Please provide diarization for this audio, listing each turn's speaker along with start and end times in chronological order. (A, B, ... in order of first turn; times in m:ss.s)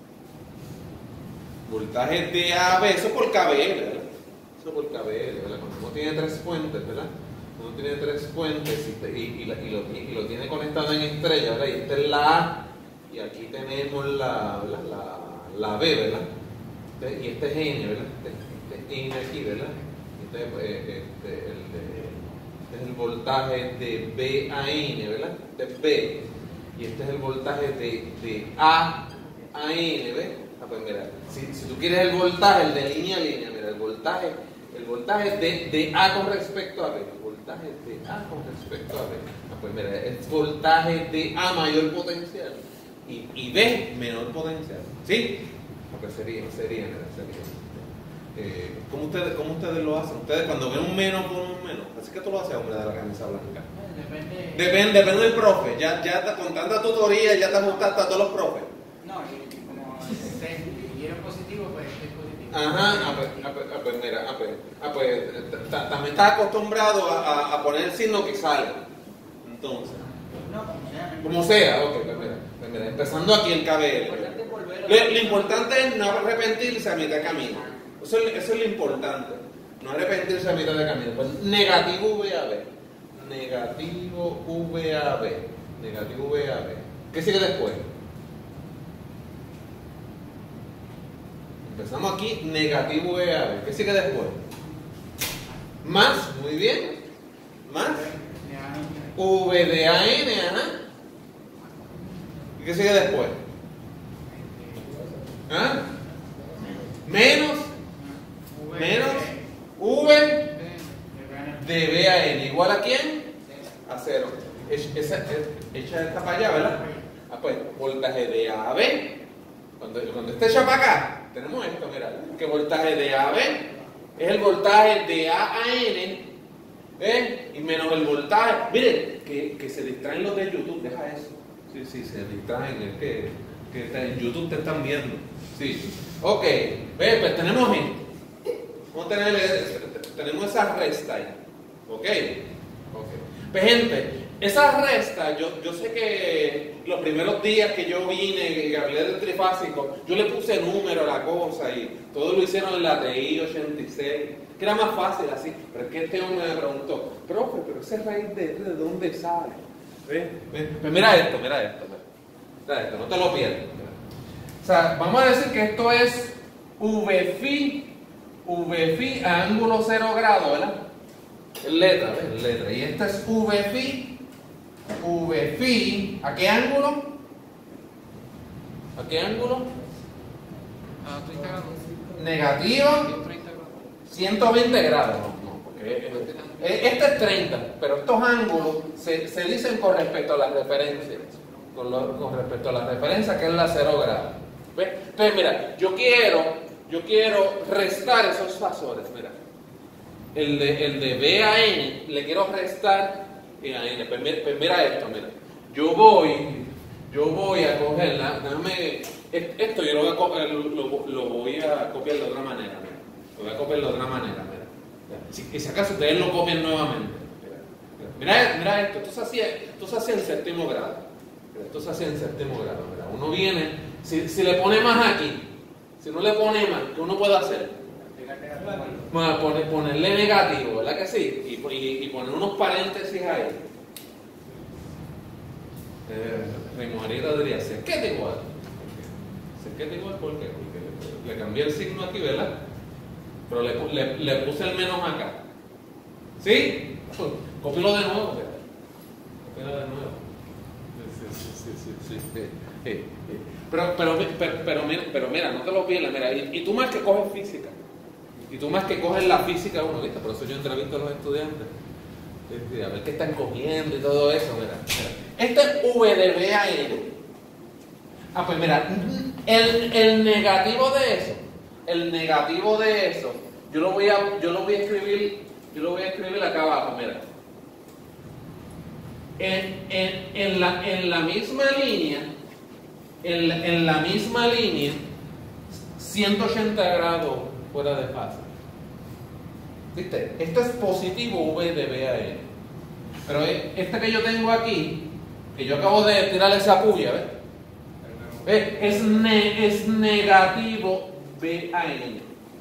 0:01.7-0:16.3 A
0:17.0-0:26.3 A
0:26.8-0:53.7 A
0:53.9-0:54.5 B
0:54.5-0:58.7 A
0:59.0-1:02.5 B
1:02.5-1:08.8 A
1:09.4-1:10.0 A
1:10.3-1:11.2 B
1:11.2-1:27.9 A
1:14.4-1:14.9 B
1:31.6-1:34.4 A
1:35.8-1:37.0 A
1:37.7-1:38.1 A
1:38.2-1:39.1 B
1:39.2-1:40.8 A
1:42.6-1:43.4 A
1:45.5-1:45.9 A
1:47.0-1:47.7 A
1:48.7-1:50.6 A
1:51.0-1:51.5 B
1:51.6-1:53.3 A
1:53.9-1:59.2 A
1:59.8-2:06.3 A
2:07.0-2:18.0 A
2:18.9-2:42.0 A
2:42.7-2:44.0 A
2:44.6-2:47.9 A
2:48.4-2:50.8 A
2:51.6-2:54.2 A
2:55.0-2:57.1 A
2:59.0-2:59.7 A
3:01.1-3:01.8 B
3:02.1-3:03.3 A
3:03.3-3:03.7 B
3:04.1-3:19.4 A
3:20.4-3:45.5 A
3:46.0-3:47.8 A
3:48.3-3:49.0 B
3:49.1-3:53.6 A
3:56.1-4:02.6 A
4:03.5-4:05.4 A
4:06.4-4:08.6 A
4:09.5-4:10.3 A
4:11.0-4:17.8 A
4:18.5-4:21.7 A
4:22.5-4:27.1 A
4:28.3-4:37.3 A
4:39.4-4:42.3 A
4:43.2-4:45.1 A
4:45.9-4:48.5 A
4:49.9-4:52.5 A
4:53.3-4:57.3 A
4:58.4-5:02.3 A